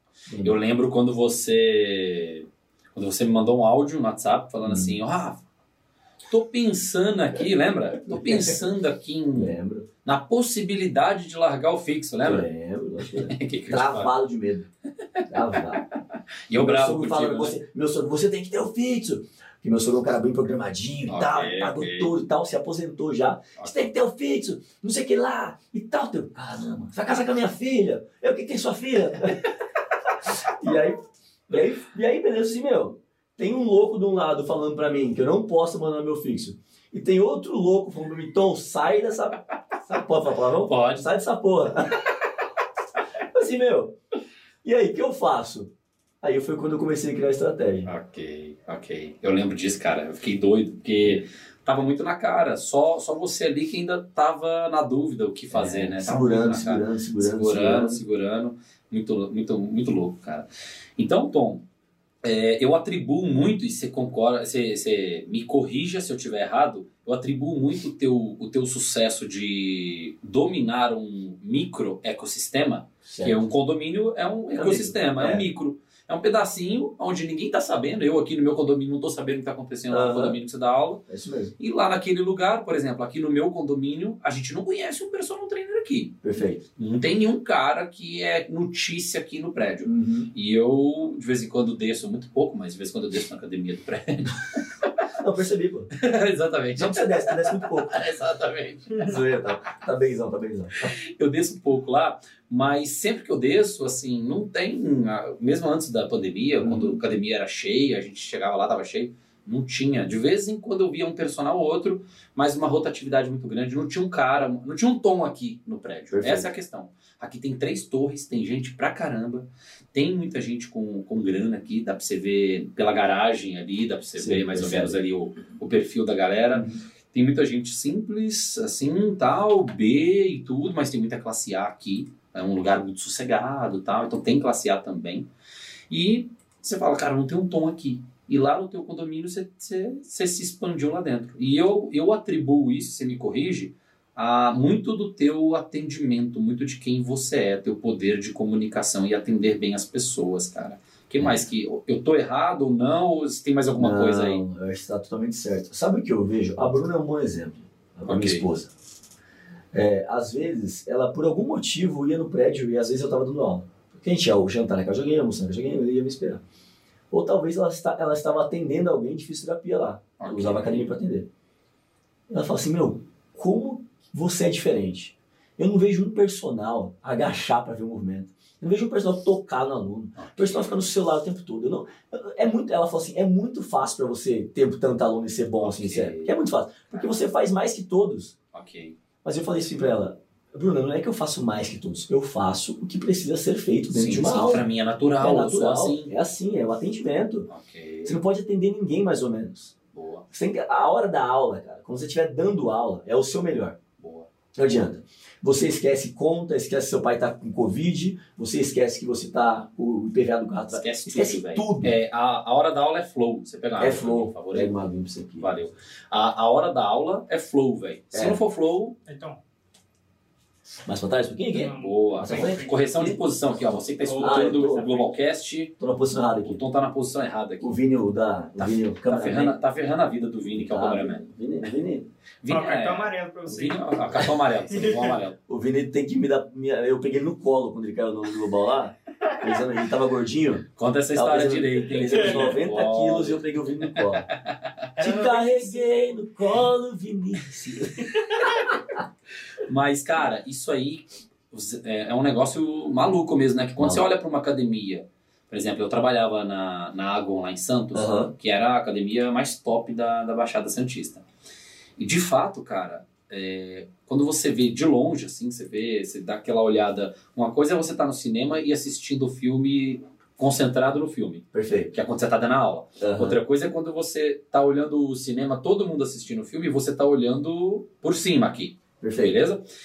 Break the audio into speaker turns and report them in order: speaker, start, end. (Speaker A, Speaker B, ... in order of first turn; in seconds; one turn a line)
Speaker A: 0.3-0.6
Speaker B: 0.4-5.4
Speaker A: 4.6-5.0
Speaker B: 6.3-12.5
Speaker A: 8.1-8.6
Speaker A: 9.3-9.9
Speaker A: 12.2-14.7
Speaker B: 13.1-14.1
Speaker A: 15.3-15.8
Speaker B: 16.5-17.6
Speaker A: 16.5-29.5
Speaker B: 21.1-22.1
Speaker A: 30.2-42.2
Speaker B: 40.6-41.1
Speaker A: 43.3-43.9
Speaker A: 44.6-45.7
Speaker A: 46.2-47.9
Speaker B: 47.9-61.6
Speaker A: 55.5-58.0
Speaker B: 62.2-81.0
Speaker A: 73.0-73.4
Speaker A: 74.5-75.5
Speaker A: 79.9-80.4
Speaker A: 81.1-81.5
Speaker B: 81.6-86.2
Speaker A: 86.2-86.6
Speaker B: 86.8-94.7
Speaker A: 89.8-90.3
Speaker A: 95.2-95.9
Speaker B: 96.0-99.2
Speaker A: 96.8-97.9
Speaker A: 99.0-100.9
Speaker B: 100.8-135.3
Speaker A: 106.6-107.0
Speaker A: 116.1-116.5
Speaker A: 124.2-125.0
Speaker A: 126.5-126.8
Speaker B: 135.9-154.4
Speaker A: 153.8-158.7
Speaker B: 158.1-158.5
Speaker A: 159.7-166.4
Speaker A: 167.1-171.3
Speaker B: 170.2-170.9
Speaker A: 172.3-188.3
Speaker B: 180.2-180.9
Speaker B: 185.6-186.3
Speaker B: 188.5-189.0
Speaker A: 189.2-194.7
Speaker B: 193.9-196.2
Speaker A: 195.2-197.5
Speaker B: 197.5-198.2
Speaker A: 198.1-199.7
Speaker B: 199.9-200.3
Speaker A: 200.3-203.8
Speaker B: 204.0-204.3
Speaker A: 204.6-211.9
Speaker B: 210.7-214.8
Speaker A: 213.8-215.5
Speaker B: 215.4-219.0
Speaker A: 218.1-218.4
Speaker C: 219.1-219.4
Speaker A: 220.9-222.7
Speaker C: 221.5-223.2
Speaker B: 221.7-225.7
Speaker C: 224.0-225.1
Speaker A: 224.2-224.9
Speaker A: 225.8-226.6
Speaker B: 226.4-227.8
Speaker A: 227.6-229.6
Speaker B: 228.6-231.2
Speaker A: 230.5-232.1
Speaker B: 232.4-235.4
Speaker C: 232.5-235.2
Speaker A: 235.5-244.3
Speaker B: 240.8-244.9
Speaker C: 242.1-242.6
Speaker C: 245.0-245.7
Speaker A: 245.0-248.1
Speaker B: 249.6-261.2
Speaker A: 253.8-254.0
Speaker A: 257.9-258.3
Speaker B: 262.0-279.6
Speaker A: 271.5-271.9
Speaker A: 273.0-273.4
Speaker A: 279.0-279.4